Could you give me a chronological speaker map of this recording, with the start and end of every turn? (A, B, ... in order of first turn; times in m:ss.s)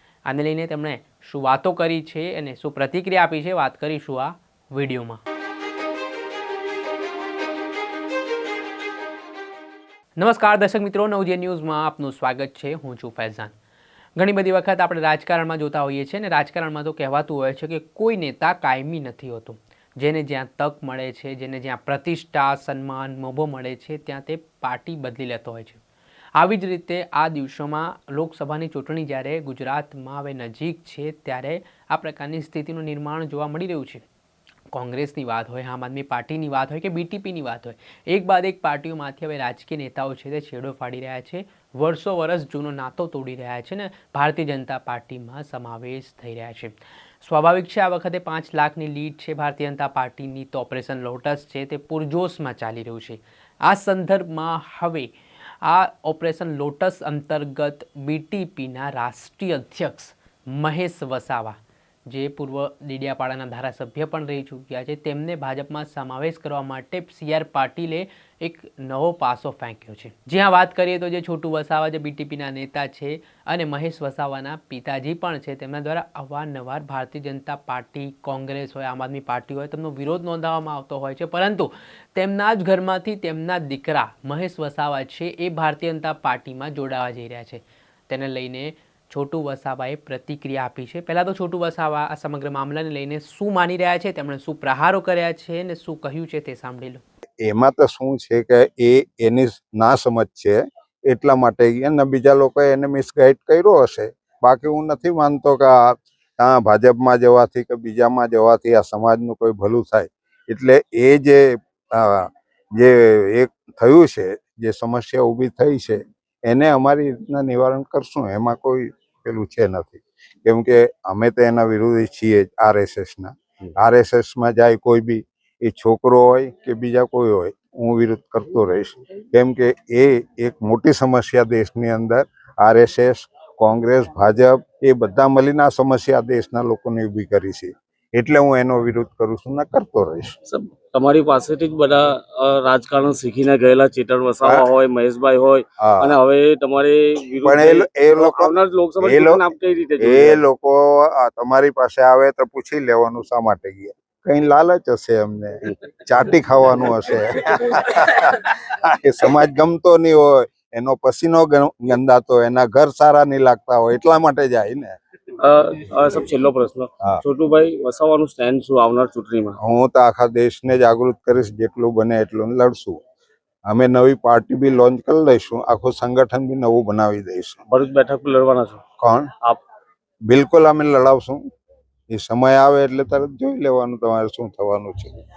0:00.2-0:05.2 A
0:10.2-0:13.5 A
0:14.2-0:25.8 A
0:26.4-0:34.0 A
0:34.7-1:37.0 A
1:37.4-2:20.3 B
2:20.5-2:30.4 C
2:25.8-2:26.1 B
2:27.4-2:29.4 B
2:30.0-2:45.0 B
2:45.4-2:49.6 C
2:49.6-2:53.0 B
2:53.7-2:57.6 B
2:57.7-2:58.8 C
2:59.0-2:59.3 B
3:00.3-3:01.4 B
3:02.1-3:05.2 B